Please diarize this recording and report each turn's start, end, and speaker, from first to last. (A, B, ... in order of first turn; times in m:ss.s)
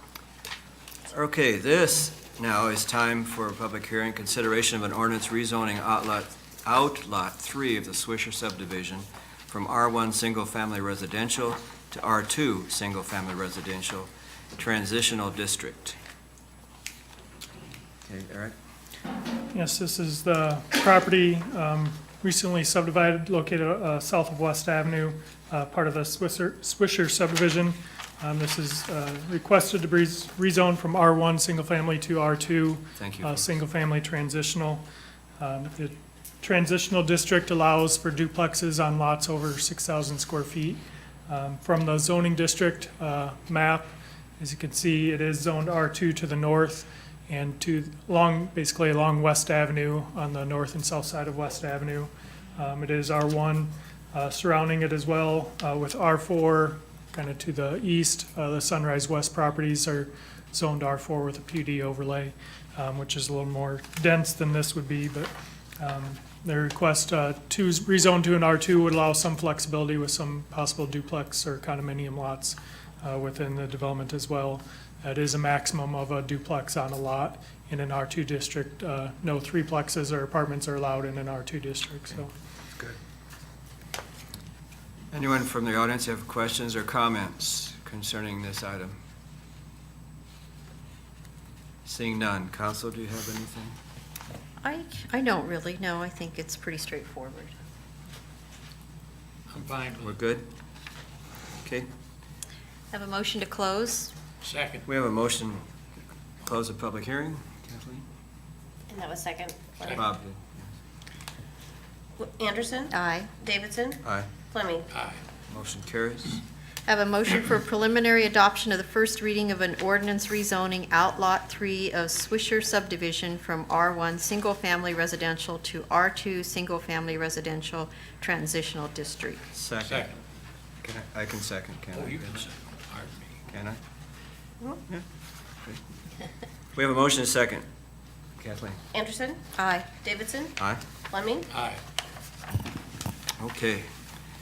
0:01.1-0:16.0 A
0:18.0-0:18.5 A
0:19.5-0:34.8 B
0:33.0-0:33.5 A
0:35.4-1:22.3 B
1:25.1-1:29.0 A
1:31.8-1:33.8 A
1:34.6-1:37.5 C
1:39.5-1:40.1 D
1:40.0-1:40.5 A
1:42.9-1:44.1 C
1:44.4-1:44.8 D
1:44.8-1:45.6 A
1:46.4-1:48.0 A
1:48.9-1:50.1 E
1:49.9-1:50.6 A
1:52.2-1:54.0 E
1:52.9-1:53.3 C
1:54.0-1:54.3 A
1:54.5-1:54.9 E
1:54.9-1:55.2 D
1:55.5-1:56.4 A
1:56.8-2:09.4 C
2:09.5-2:10.1 A
2:09.8-2:10.2 D
2:10.8-2:12.5 A
2:11.9-2:13.3 D
2:13.5-2:13.8 A
2:16.7-2:17.6 A
2:18.4-2:18.8 A
2:18.9-2:19.4 E
2:19.6-2:19.9 C
2:20.0-2:20.5 E
2:20.6-2:20.8 A
2:21.1-2:21.5 E
2:21.5-2:21.8 D
2:23.4-2:23.9 A